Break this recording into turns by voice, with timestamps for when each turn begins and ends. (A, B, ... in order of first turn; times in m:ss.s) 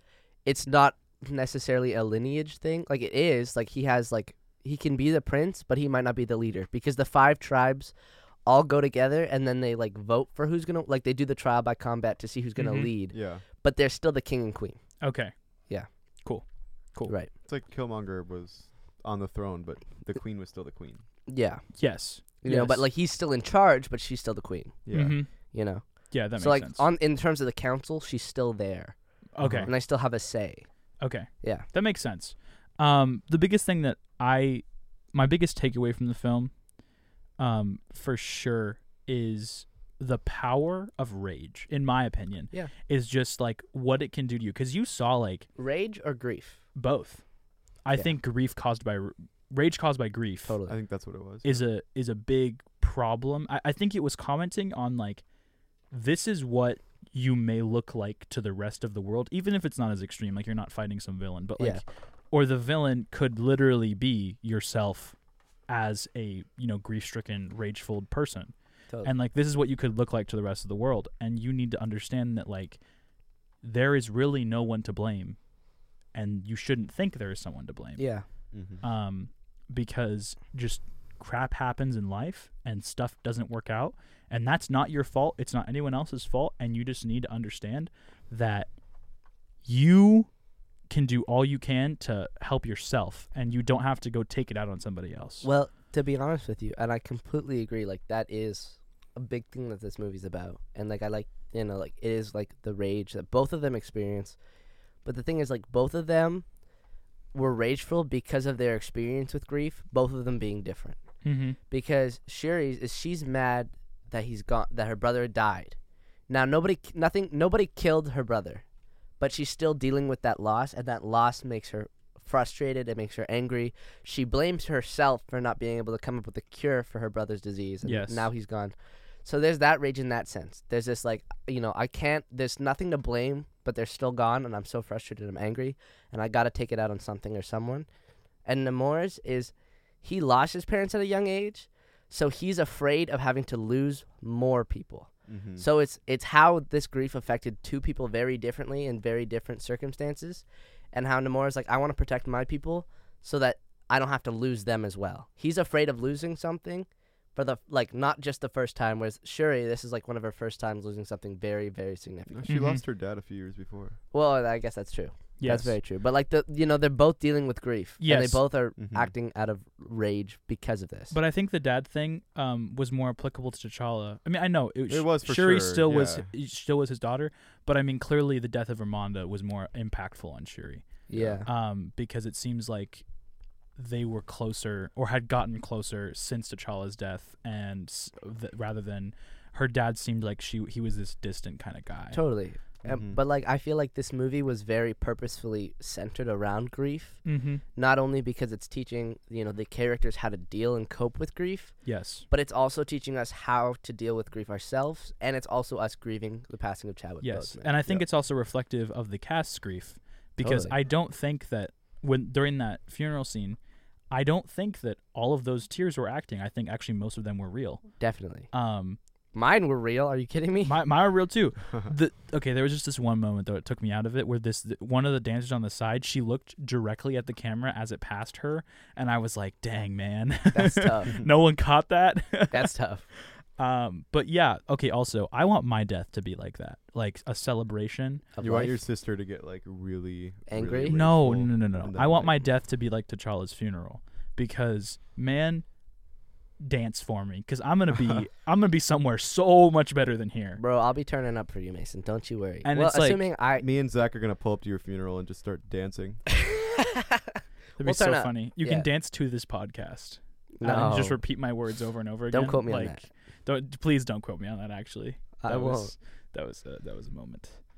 0:00.4-0:07.9 A
0:08.4-0:14.8 A
0:12.6-0:12.9 B
0:13.1-0:13.4 C
0:15.0-0:15.3 B
0:16.2-0:17.1 B
0:17.4-0:21.0 C
0:21.3-0:21.6 A
0:21.7-0:22.8 B
0:22.4-0:24.8 A
0:24.8-0:25.2 C
0:24.9-0:25.3 B
0:25.5-0:28.9 A
0:26.1-0:26.9 B
0:29.3-0:29.7 B
0:29.4-0:29.7 C
0:29.6-0:30.7 A
0:31.0-0:36.5 B
0:31.4-0:31.6 A
0:37.4-0:45.5 B
0:45.6-0:46.6 A
0:46.7-0:47.2 B
0:47.8-0:50.6 B
0:50.5-0:50.7 A
0:50.6-0:51.6 C
0:51.4-0:55.2 B
0:55.9-1:05.2 B
1:05.7-1:12.8 B
1:13.6-1:15.4 B
1:16.1-1:18.1 B
1:18.0-1:18.2 A
1:18.5-1:18.8 C
1:18.8-1:28.7 B
1:29.6-1:30.3 B
1:30.9-1:35.5 B
1:35.4-1:44.4 A
1:45.0-1:46.4 A
1:47.3-1:51.0 A
1:51.2-1:51.6 B
1:51.7-1:55.8 A
1:56.3-1:58.6 A
1:59.2-2:17.9 A
2:07.8-2:08.3 B
2:18.4-2:42.5 A
2:25.3-2:25.6 C
2:42.3-2:44.0 C
2:42.4-2:42.8 B
2:44.1-2:51.1 A
2:45.4-2:45.8 B
2:48.0-2:48.4 B
2:48.8-2:49.1 C
2:51.1-3:00.8 B
2:54.9-2:56.3 C
3:01.1-3:01.5 A
3:01.1-3:01.4 C
3:01.4-3:03.0 B
3:03.8-3:12.2 B
3:12.1-3:17.2 A
3:12.8-3:13.2 C
3:17.2-3:17.6 B
3:17.8-3:21.8 A
3:21.8-3:22.3 B
3:22.3-3:28.0 A
3:27.2-3:33.6 B
3:30.4-3:30.7 A
3:34.1-3:37.8 B
3:38.0-3:38.5 A
3:38.5-3:39.0 B
3:39.3-3:40.8 A
3:40.6-3:52.7 B
3:50.5-3:51.2 A
3:52.5-3:53.0 A
3:53.6-3:58.2 B
3:58.4-3:58.8 A
3:58.4-4:02.4 C
4:00.5-4:01.0 A
4:00.9-4:05.6 B
4:06.6-4:10.6 B
4:10.6-4:13.6 A
4:12.6-4:13.2 B
4:13.6-4:16.2 C
4:16.3-4:18.9 A
4:17.8-4:27.6 B
4:20.6-4:21.2 A
4:22.3-4:23.0 A
4:25.4-4:25.9 A